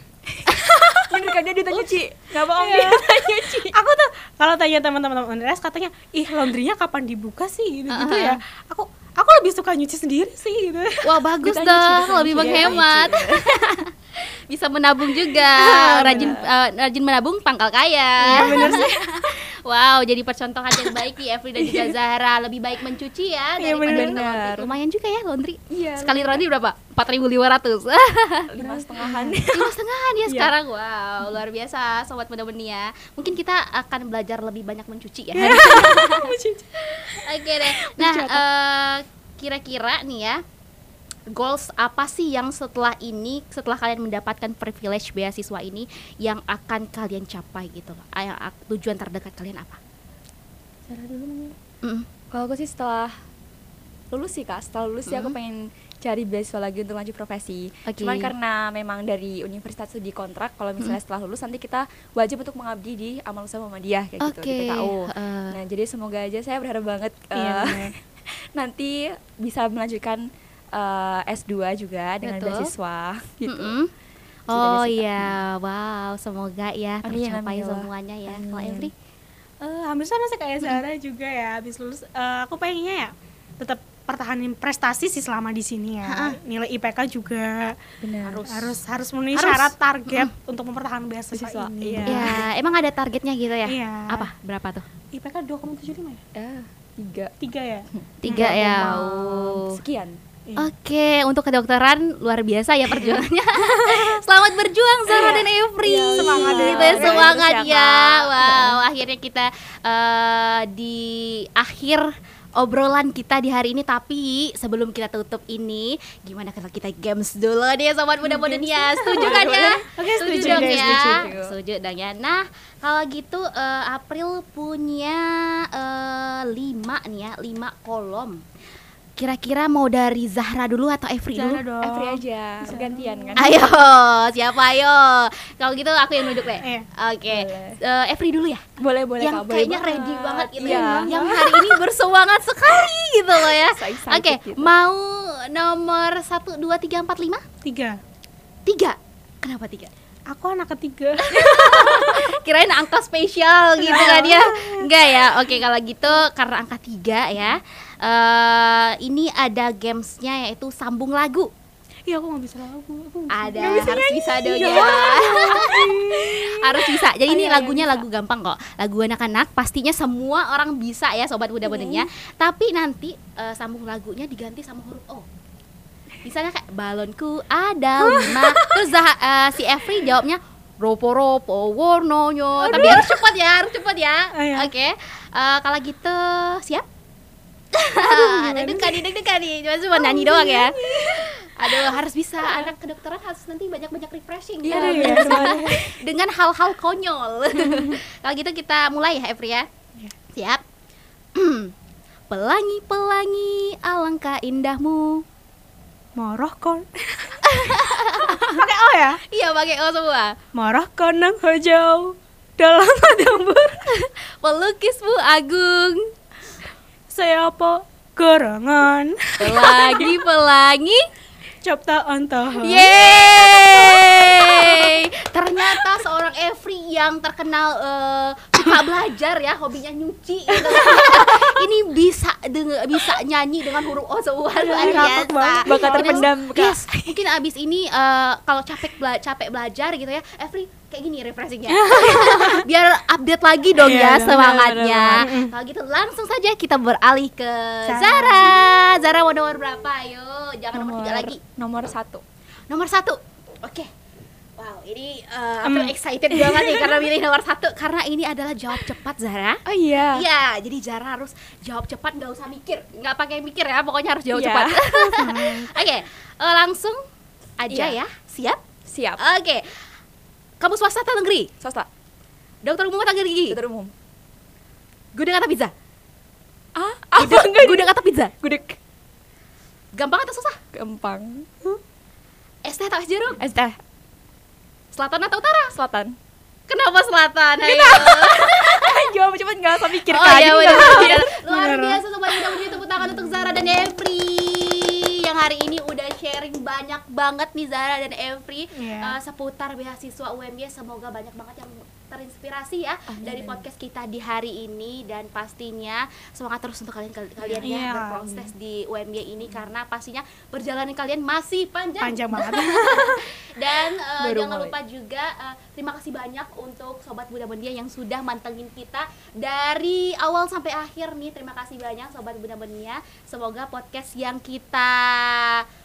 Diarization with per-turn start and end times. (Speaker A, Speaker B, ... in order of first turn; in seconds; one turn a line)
Speaker A: 0.3-0.6
Speaker B: 0.5-1.0
Speaker C: 0.7-1.2
Speaker A: 1.1-3.8
Speaker C: 2.5-11.2
Speaker B: 7.9-8.4
Speaker B: 11.0-28.5
Speaker A: 11.4-13.8
Speaker C: 12.4-12.8
Speaker A: 15.2-16.4
Speaker C: 15.9-16.3
Speaker A: 18.2-19.3
Speaker C: 18.3-18.9
Speaker A: 21.6-21.9
Speaker C: 23.6-24.2
Speaker A: 23.8-24.7
Speaker A: 25.7-26.4
Speaker A: 28.5-29.7
Speaker C: 28.6-29.4
Speaker B: 29.5-40.4
Speaker C: 35.3-37.2
Speaker C: 37.8-38.3
Speaker B: 41.3-49.8
Speaker A: 50.9-51.5
Speaker A: 52.3-53.1
Speaker A: 54.1-70.2
Speaker B: 55.1-55.4
Speaker B: 57.9-58.3
Speaker B: 64.2-65.6
Speaker C: 67.3-67.9
Speaker A: 70.7-73.7
Speaker B: 72.2-72.7
Speaker B: 73.5-73.9
Speaker B: 74.5-78.9
Speaker A: 74.5-75.4
Speaker A: 77.0-78.9
Speaker C: 79.6-87.8
Speaker B: 86.1-86.4
Speaker A: 88.0-88.7
Speaker C: 88.4-92.3
Speaker B: 89.3-90.3
Speaker A: 91.3-92.4
Speaker B: 92.0-94.8
Speaker C: 93.7-94.2
Speaker C: 95.1-96.2
Speaker A: 96.3-97.3
Speaker C: 97.4-98.5
Speaker A: 98.0-100.2
Speaker B: 98.2-99.7
Speaker B: 100.6-128.4
Speaker C: 103.8-104.1
Speaker C: 105.1-105.5
Speaker A: 105.8-108.8
Speaker C: 106.2-107.4
Speaker C: 118.2-121.3
Speaker A: 119.1-121.5
Speaker B: 129.2-131.6
Speaker C: 131.3-133.5
Speaker A: 131.8-133.7
Speaker B: 133.3-138.6
Speaker C: 136.6-136.9
Speaker A: 137.3-137.8
Speaker A: 138.8-141.8
Speaker B: 139.2-147.4
Speaker C: 140.6-141.3
Speaker A: 143.4-144.7
Speaker C: 147.6-148.0
Speaker B: 148.7-149.9
Speaker C: 150.3-152.3
Speaker B: 151.2-161.5
Speaker C: 153.8-155.6
Speaker C: 162.1-166.5
Speaker B: 163.3-175.2
Speaker A: 163.6-168.0
Speaker B: 176.2-186.8
Speaker C: 178.0-178.7
Speaker C: 182.6-183.2
Speaker C: 184.3-184.7
Speaker B: 187.8-199.7
Speaker C: 188.0-189.0
Speaker C: 190.0-191.2
Speaker A: 190.4-190.8
Speaker C: 192.4-192.7
Speaker A: 194.6-195.8
Speaker C: 194.7-195.8
Speaker C: 197.6-197.9
Speaker B: 200.3-200.6
Speaker B: 201.3-201.7
Speaker B: 202.3-205.2
Speaker C: 206.2-209.2
Speaker B: 207.5-208.6
Speaker B: 209.3-210.3
Speaker C: 210.5-213.9
Speaker B: 214.4-216.1
Speaker C: 217.1-220.1
Speaker B: 219.4-221.0
Speaker C: 221.6-224.9
Speaker B: 222.6-251.4
Speaker C: 234.6-236.3
Speaker A: 234.8-235.1
Speaker A: 235.6-237.2
Speaker C: 241.7-242.6
Speaker C: 243.8-244.4
Speaker A: 243.9-245.3
Speaker C: 245.2-245.5
Speaker C: 247.8-248.6
Speaker A: 250.7-252.2
Speaker B: 252.7-253.9
Speaker B: 254.6-267.0
Speaker C: 255.6-255.9
Speaker A: 256.3-256.9
Speaker A: 259.7-260.2
Speaker A: 264.3-265.3
Speaker C: 265.2-265.7
Speaker B: 267.6-268.6
Speaker A: 267.7-268.0
Speaker A: 268.9-269.2
Speaker B: 269.2-269.8
Speaker B: 270.6-271.5
Speaker A: 271.6-271.9
Speaker B: 272.6-273.6
Speaker A: 273.5-273.9
Speaker B: 275.1-275.7
Speaker A: 276.8-278.8
Speaker B: 277.2-278.3
Speaker B: 279.9-280.6
Speaker A: 280.7-281.5
Speaker B: 282.6-283.4
Speaker A: 283.4-283.8
Speaker B: 284.9-285.7
Speaker A: 285.7-286.1
Speaker B: 286.7-289.0
Speaker A: 287.6-291.3
Speaker B: 290.1-325.6
Speaker C: 290.7-292.0
Speaker A: 292.7-293.8
Speaker C: 298.8-299.1
Speaker A: 303.1-303.6
Speaker A: 307.4-307.6
Speaker C: 307.6-308.3
Speaker C: 312.0-313.2
Speaker A: 314.2-314.7